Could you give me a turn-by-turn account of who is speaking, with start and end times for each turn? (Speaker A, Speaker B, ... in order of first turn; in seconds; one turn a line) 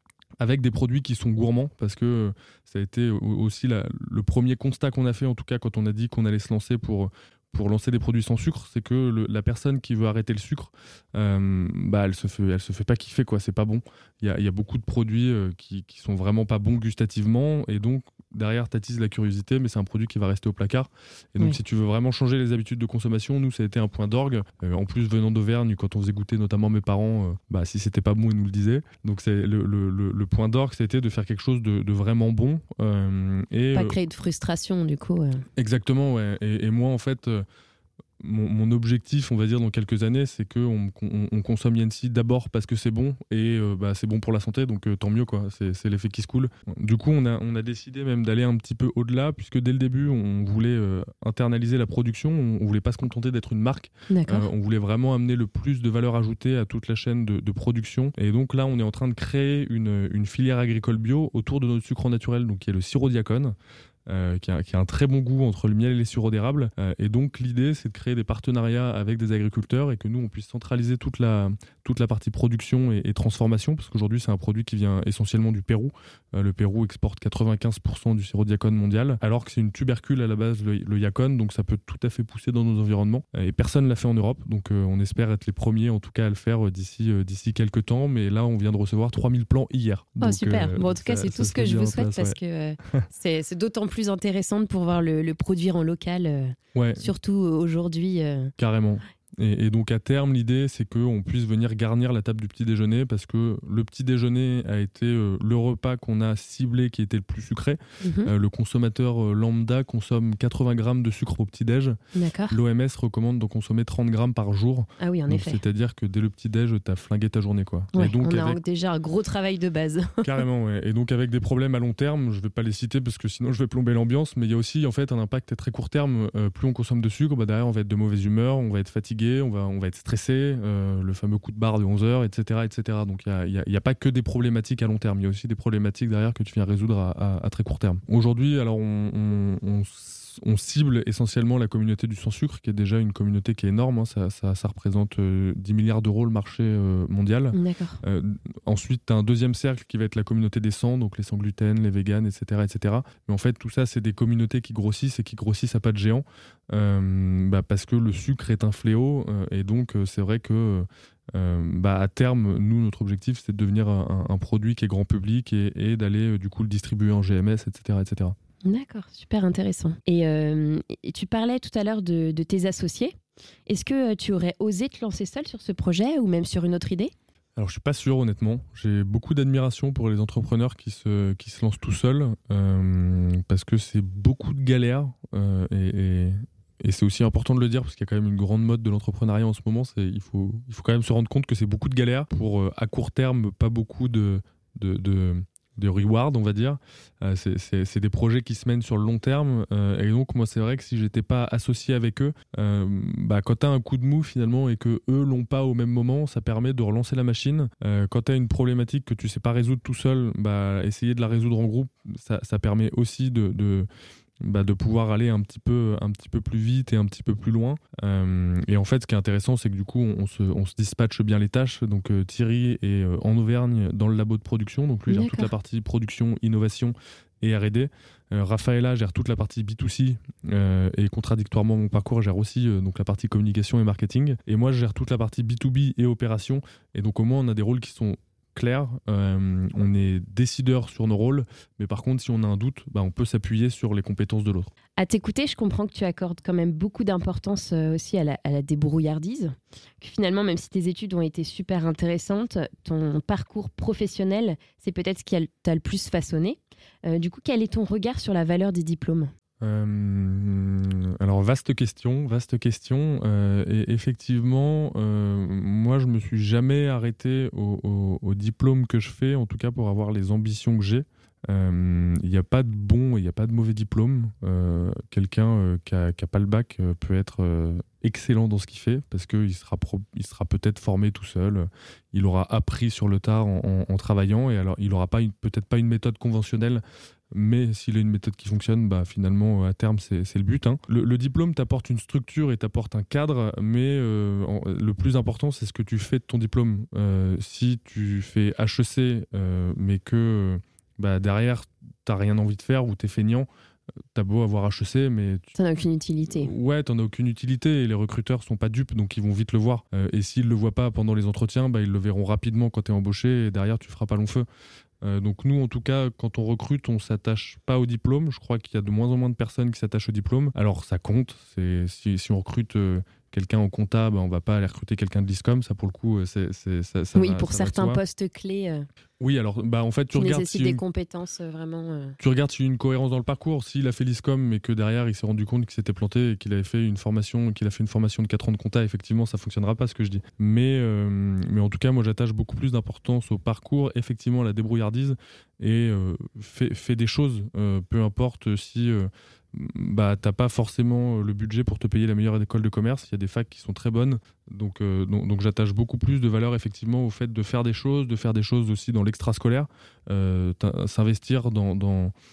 Speaker A: 0.4-34.0
Speaker B: 33.7-35.4
Speaker A: 35.6-37.4
Speaker A: 38.2-63.5
Speaker B: 54.1-54.5
Speaker A: 64.1-92.4
Speaker B: 90.2-98.5
Speaker A: 96.7-97.1
Speaker A: 98.6-112.0
Speaker B: 108.0-108.3
Speaker B: 112.1-112.6
Speaker A: 112.5-118.6
Speaker B: 115.0-115.6
Speaker B: 117.9-120.4
Speaker A: 120.2-168.4
Speaker B: 147.5-148.0
Speaker B: 168.7-173.1
Speaker B: 173.7-177.1
Speaker A: 177.6-213.9
Speaker A: 214.4-244.7
Speaker B: 225.1-225.5
Speaker B: 245.0-259.3
Speaker A: 259.6-303.5
Speaker A: 304.1-305.5
Speaker B: 305.6-306.5
Speaker A: 306.3-314.5
Speaker A: 315.0-328.0
Speaker B: 327.1-328.9
Speaker A: 329.2-330.8
Speaker B: 330.1-332.2
Speaker A: 332.2-362.1